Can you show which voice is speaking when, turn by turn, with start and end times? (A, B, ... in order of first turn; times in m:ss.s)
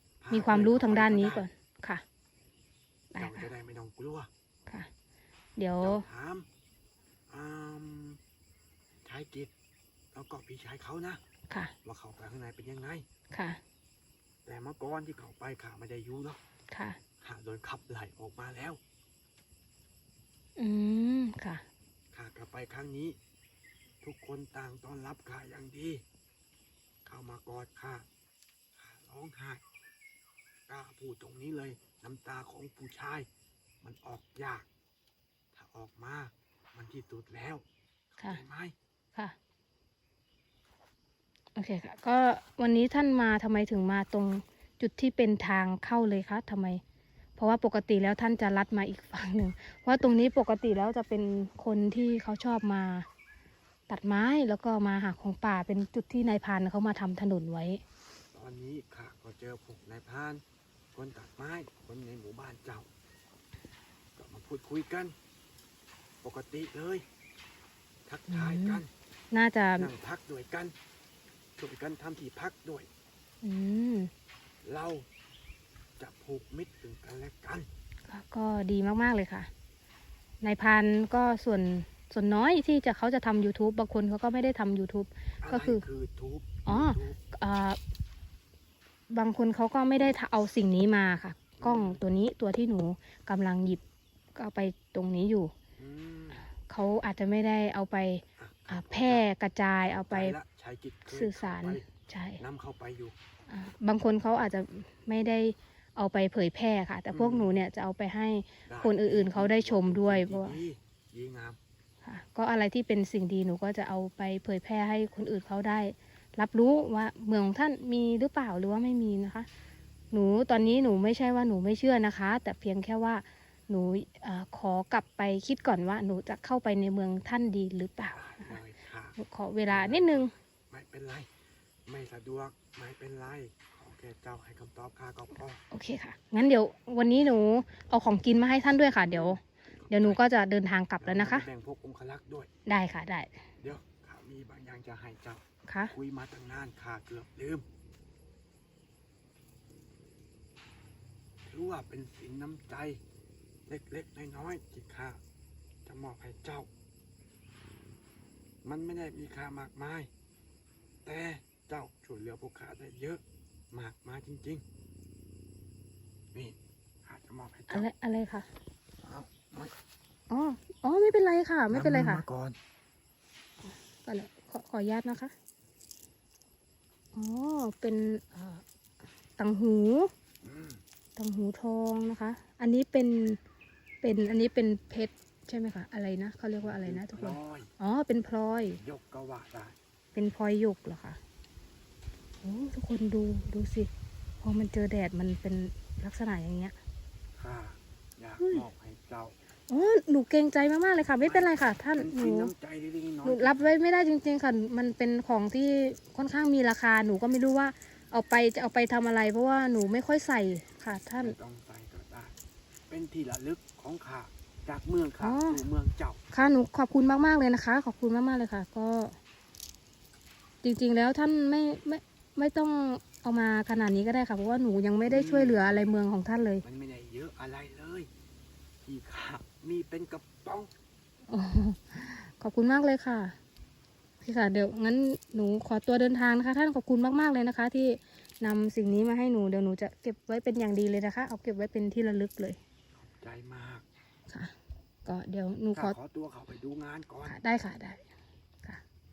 0:00.2-0:01.5 A
0:00.3-0:02.0 B
0:03.1-0:03.5 B
0:03.2-0:04.3 A
0:05.6-0:06.0 B
0:05.8-0:06.5 A
0:07.3-0:08.2 A
0:09.0-0:09.5 A
0:10.1-0:11.2 A
0:11.8-0:13.0 A
0:13.3-0:13.6 B
0:14.4-0:16.4 A
0:16.7-0:17.0 B
0:17.2-0:18.8 A
0:20.6-0:21.6 B
0:22.1-0:23.2 A
0:24.0-0:26.0 A
0:27.0-0:28.0 A
0:28.7-0:29.6 A
0:30.7-0:33.3 A
0:33.8-0:34.7 A
0:35.5-0:37.6 A
0:38.2-0:38.7 A
0:41.6-0:46.8 B
0:47.4-0:53.1 B
0:53.9-0:57.8 B
0:58.3-1:00.4 A
1:00.9-1:02.9 A
1:04.2-1:05.1 A
1:06.2-1:07.0 A
1:08.1-1:08.9 A
1:08.3-1:09.9 B
1:09.8-1:10.7 A
1:11.6-1:12.9 A
1:13.4-1:14.1 B
1:14.6-1:15.1 A
1:16.0-1:17.7 A
1:18.1-1:19.5 B
1:20.4-1:25.8 B
1:25.4-1:27.2 A
1:26.6-1:27.8 B
1:29.1-1:33.8 B
1:31.6-1:32.0 A
1:34.3-1:35.5 B
1:35.8-1:36.4 A
1:36.5-1:40.4 B
1:38.4-1:39.3 A
1:40.1-1:41.8 A
1:41.1-1:42.4 B
1:42.4-1:43.1 A
1:43.5-1:50.6 B
1:47.1-1:47.6 A
1:48.7-1:51.6 A
1:52.0-1:59.5 B
2:00.1-2:08.6 B
2:08.1-2:09.2 A
2:09.2-2:10.3 B
2:09.7-2:11.3 A
2:11.8-2:15.6 A
2:15.7-2:21.4 B
2:19.1-2:20.2 A
2:21.0-2:22.5 A
2:22.7-2:23.3 B
2:23.6-2:27.6 A
2:25.7-2:25.9 B
2:31.4-2:33.0 A
2:33.7-2:35.2 A
2:35.8-2:36.7 A
2:38.6-2:40.1 A
2:41.0-2:44.6 A
2:46.3-2:47.9 A
2:47.7-2:48.5 B
2:49.0-2:49.7 A
2:50.3-2:52.2 B
2:51.7-2:52.6 A
2:53.6-2:55.3 B
2:57.1-2:58.6 B
2:59.4-3:00.1 B
3:00.4-3:00.8 A
3:01.2-3:03.4 B
3:04.0-3:08.8 B
3:06.6-3:07.7 A
3:08.8-3:09.8 A
3:10.1-3:11.2 B
3:12.4-3:13.9 B
3:14.4-3:16.8 B
3:17.4-3:19.4 A
3:18.4-3:18.6 B
3:19.7-3:22.5 B
3:21.2-3:23.7 A
3:23.2-3:31.4 B
3:31.2-3:32.3 A
3:32.9-3:36.2 A
3:35.2-3:35.6 B
3:36.3-3:39.2 B
3:40.6-3:46.6 B
3:45.0-3:45.9 A
3:46.6-3:48.1 A
3:48.8-3:50.7 A
3:51.3-3:53.4 B
3:54.2-4:02.6 B
4:03.0-4:03.8 A
4:04.3-4:04.5 B
4:05.0-4:06.0 B
4:05.7-4:07.4 A
4:07.2-4:08.0 B